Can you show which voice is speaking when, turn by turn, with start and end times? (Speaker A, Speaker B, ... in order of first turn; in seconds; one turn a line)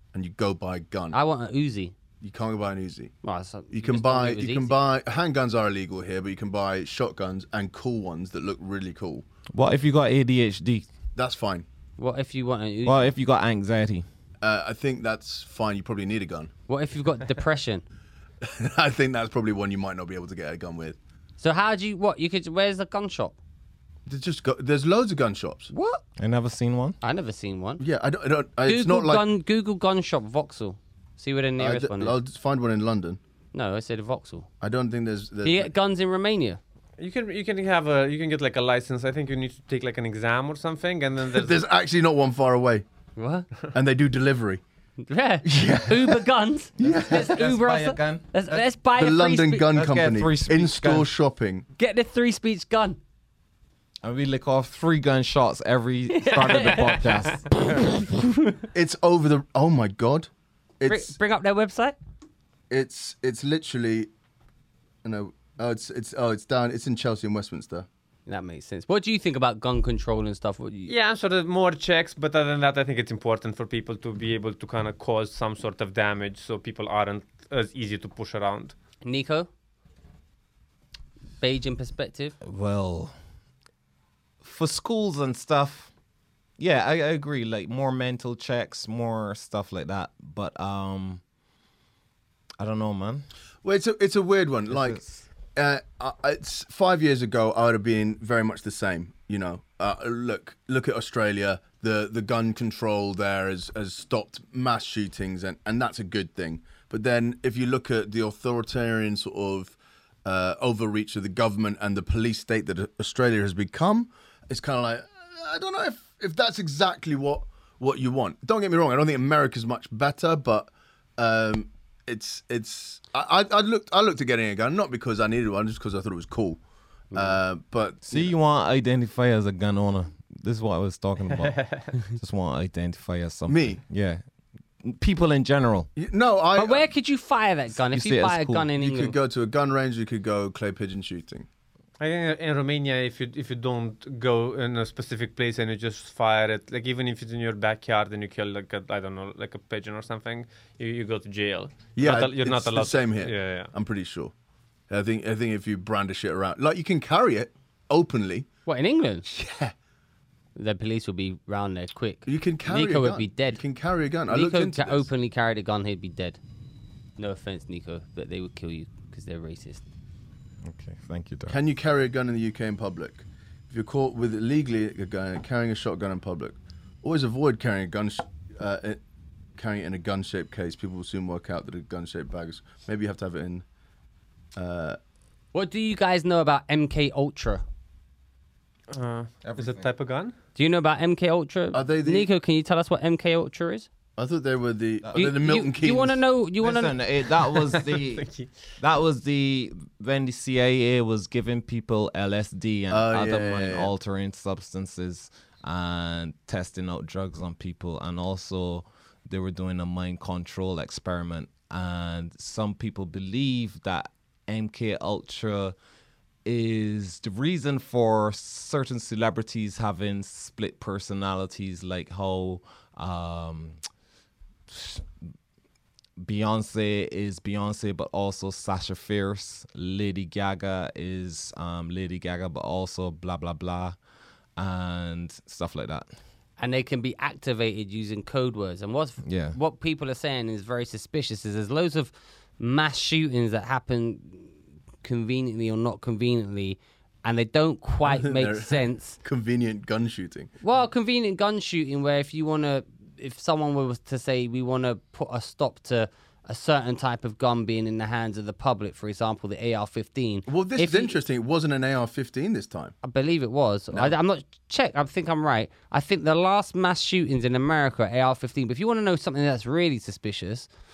Speaker A: 0.1-1.2
Speaker B: 1.1-1.9
Speaker A: 2.2-3.1
Speaker B: 3.2-4.8
Speaker A: 3.7-9.2
Speaker C: 9.5-10.8
Speaker A: 11.2-11.7
Speaker B: 12.0-13.1
Speaker C: 12.8-14.0
Speaker A: 14.4-16.5
Speaker B: 16.7-17.8
Speaker A: 18.4-21.0
Speaker B: 21.4-23.3
Speaker A: 24.1-25.7
Speaker C: 26.1-27.0
Speaker B: 27.0-27.8
Speaker A: 27.8-29.2
Speaker B: 28.6-32.2
Speaker A: 31.6-33.2
Speaker B: 33.5-34.5
Speaker A: 34.6-35.7
Speaker B: 35.4-36.6
Speaker D: 37.0-41.6
Speaker A: 41.3-42.8
Speaker B: 43.2-43.5
Speaker A: 43.7-44.6
Speaker B: 45.1-49.7
Speaker A: 45.4-46.2
Speaker A: 46.8-47.3
Speaker C: 46.8-48.6
Speaker A: 49.0-51.6
Speaker C: 49.7-51.1
Speaker B: 51.8-53.0
Speaker C: 54.0-58.0
Speaker B: 56.1-58.6
Speaker D: 56.5-57.0
Speaker A: 58.7-60.3
Speaker A: 60.8-61.1
Speaker B: 60.9-61.9
Speaker A: 62.7-64.1
Speaker A: 65.0-67.9
Speaker B: 68.3-70.9
Speaker D: 70.9-78.7
Speaker B: 79.0-79.5
Speaker B: 81.4-82.3
Speaker C: 82.4-83.1
Speaker C: 84.4-85.9
Speaker C: 86.6-91.2
Speaker C: 92.6-93.2
Speaker A: 93.6-95.0
Speaker C: 94.7-95.2
Speaker A: 95.5-126.6
Speaker A: 127.1-128.3
Speaker C: 128.0-134.2
Speaker D: 131.3-131.9
Speaker A: 133.5-133.8
Speaker C: 134.8-135.9
Speaker A: 135.9-136.9
Speaker B: 136.5-139.1
Speaker C: 137.7-138.7
Speaker A: 138.8-141.5
Speaker D: 142.0-153.7
Speaker A: 151.9-154.3
Speaker A: 154.9-158.5
Speaker B: 158.7-159.3
Speaker A: 159.3-159.7
Speaker B: 160.6-163.6
Speaker A: 162.3-165.1
Speaker B: 164.3-166.4
Speaker B: 167.2-169.8
Speaker C: 170.6-171.6
Speaker A: 171.5-179.0
Speaker A: 179.6-183.6
Speaker A: 184.6-185.0
Speaker B: 185.5-187.6
Speaker D: 188.9-190.3
Speaker C: 189.4-189.9
Speaker B: 190.6-193.9
Speaker A: 191.7-192.3
Speaker A: 194.2-196.2
Speaker B: 195.1-197.0
Speaker C: 196.6-198.3
Speaker D: 197.6-198.5
Speaker C: 198.8-215.8
Speaker A: 202.9-203.9
Speaker C: 216.4-223.8
Speaker C: 224.7-225.1
Speaker C: 226.2-233.9
Speaker C: 234.6-236.1
Speaker B: 236.6-244.5
Speaker C: 239.2-239.6
Speaker B: 245.0-249.2
Speaker A: 248.0-250.5
Speaker B: 250.6-261.1
Speaker A: 260.5-262.9
Speaker B: 263.0-270.7
Speaker A: 263.9-264.1